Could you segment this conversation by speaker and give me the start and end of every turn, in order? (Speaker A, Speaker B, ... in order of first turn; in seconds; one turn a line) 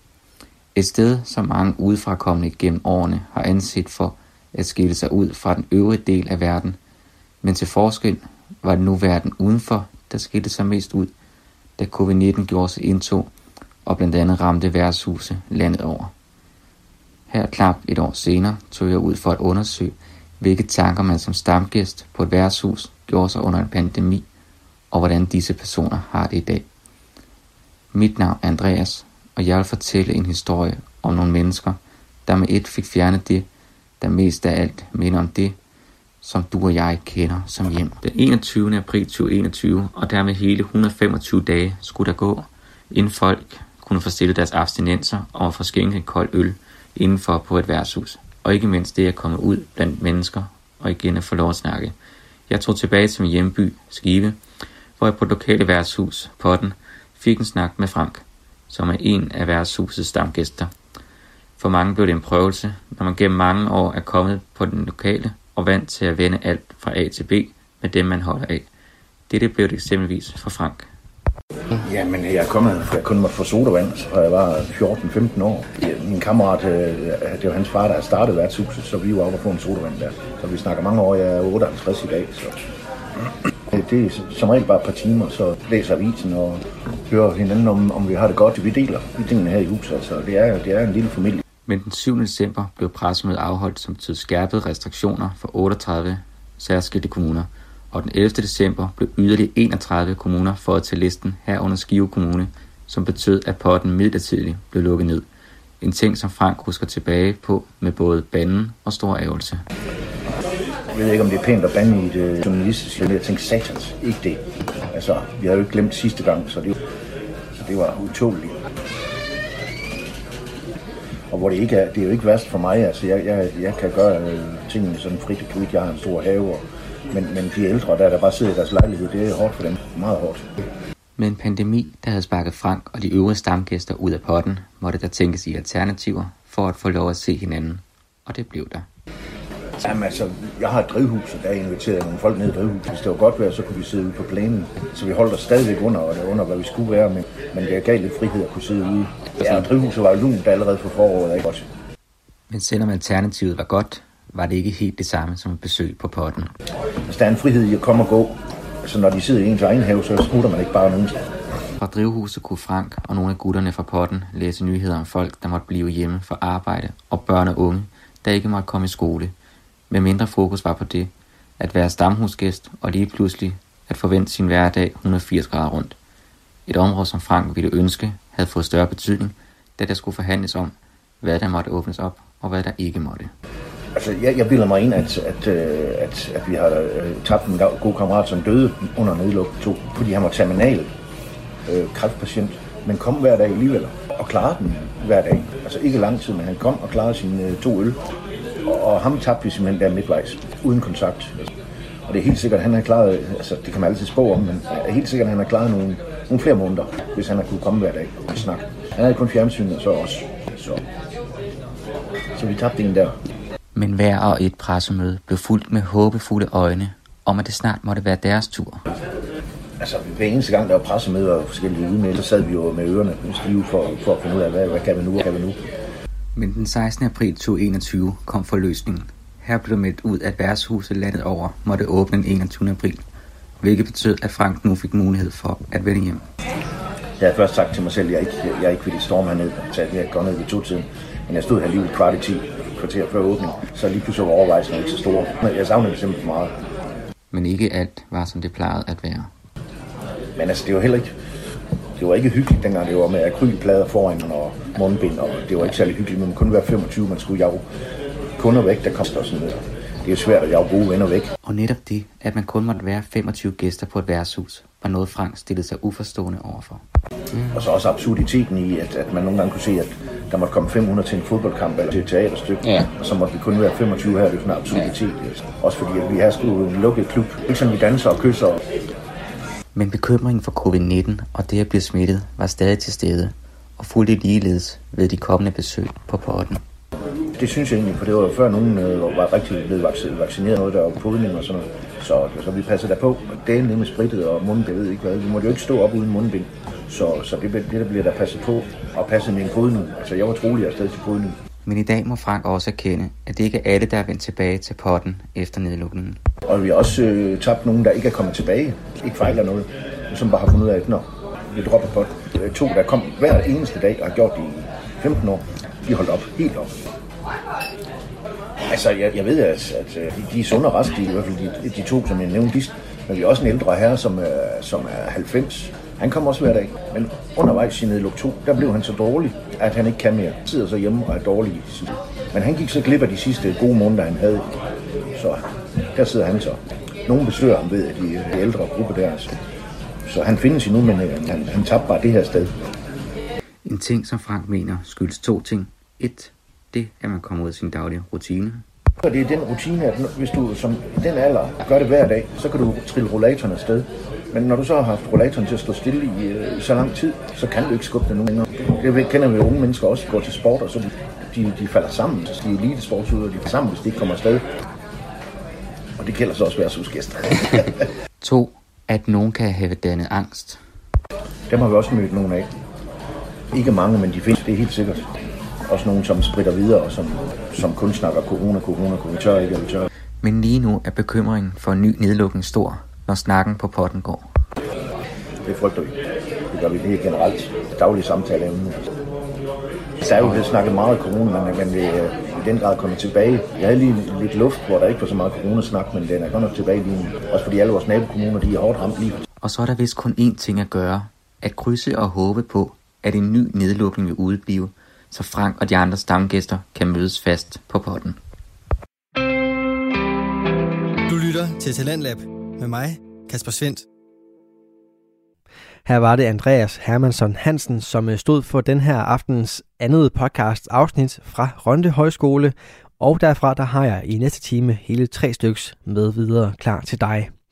Speaker A: 0.8-6.8
Speaker A: 7.4-11.1
Speaker A: 11.8-13.3
Speaker A: 13.9-16.1
Speaker A: 17.3-24.3
Speaker A: 24.9-26.6
Speaker A: 27.9-33.5
Speaker A: 34.0-35.6
Speaker A: 36.2-52.0
Speaker A: 52.5-54.4
Speaker A: 55.0-60.7
Speaker A: 61.6-68.7
Speaker A: 69.3-70.9
Speaker B: 71.8-82.7
Speaker B: 83.7-91.4
Speaker A: 91.7-105.2
Speaker A: 105.8-109.6
Speaker B: 110.9-116.8
Speaker B: 117.5-118.6
Speaker B: 121.3-130.5
Speaker A: 131.2-138.9
Speaker B: 139.8-151.7
Speaker A: 152.5-156.5
Speaker B: 157.1-161.2
Speaker A: 161.8-169.3
Speaker A: 169.9-176.0
Speaker A: 176.7-183.3
Speaker B: 183.9-190.9
Speaker B: 191.7-198.0
Speaker B: 198.6-201.4
Speaker B: 202.1-210.8
Speaker B: 212.3-213.2
Speaker A: 213.8-218.8
Speaker B: 219.8-225.6
Speaker A: 226.3-233.0
Speaker A: 233.6-236.2
Speaker B: 237.2-246.6
Speaker A: 247.3-249.3
Speaker B: 250.4-251.1
Speaker B: 252.0-257.6
Speaker B: 258.4-261.3
Speaker A: 261.4-267.6
Speaker B: 267.5-278.6
Speaker A: 272.6-272.9
Speaker A: 279.8-286.6
Speaker B: 287.4-301.4
Speaker A: 301.6-306.2
Speaker B: 306.5-316.7
Speaker B: 318.7-334.6
Speaker B: 335.1-339.4
Speaker B: 340.1-342.6
Speaker A: 343.6-348.6
Speaker B: 349.0-364.5
Speaker B: 366.0-367.8
Speaker A: 368.2-370.6
Speaker B: 371.5-372.5
Speaker B: 373.5-375.1
Speaker B: 375.7-379.9
Speaker A: 380.2-384.2
Speaker B: 385.4-386.0
Speaker B: 386.5-388.8
Speaker B: 390.0-399.2
Speaker A: 399.4-408.2
Speaker C: 411.1-413.9
Speaker D: 415.9-427.3